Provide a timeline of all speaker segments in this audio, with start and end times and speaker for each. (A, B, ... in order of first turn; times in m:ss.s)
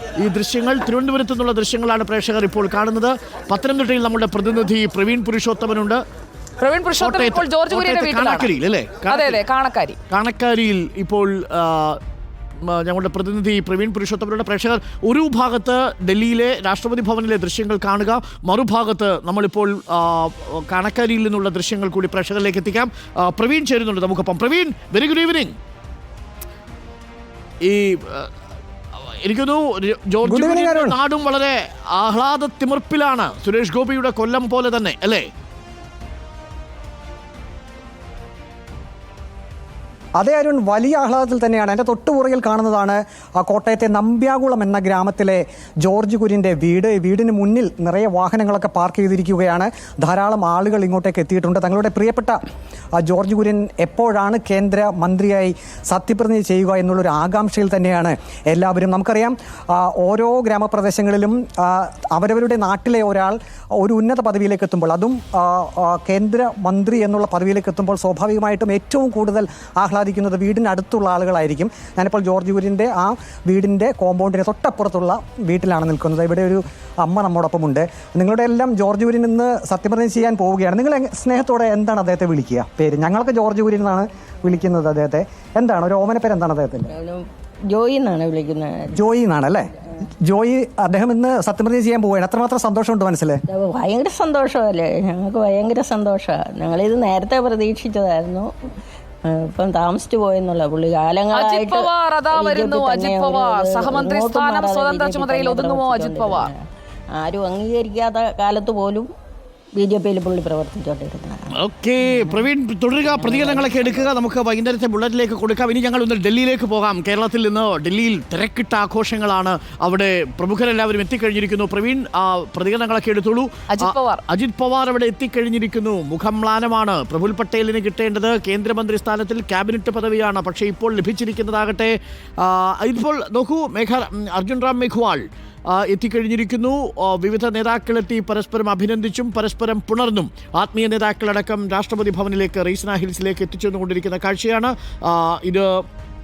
0:00.2-0:06.0 A
0:06.6-0:08.5 B
0:07.0-0:09.4 A
0:09.1-0:10.0 B
0:10.1-0:12.0 A
0:12.6-0:25.5 A
0:27.6-0:28.3 A
0:29.0-0:35.3 A
0:30.2-0:31.0 C
0:40.2-0:52.4 C
0:53.0-1:26.9 C
1:26.9-1:28.9 D
1:28.9-1:29.7 C
1:30.2-1:33.4 C
1:33.5-1:38.5 D
1:39.2-1:46.6 D
1:41.3-1:46.5 B
1:47.2-1:49.1 D
1:49.8-1:52.5 D
1:51.5-2:25.8 A
1:53.0-1:54.1 D
2:03.7-2:04.2 B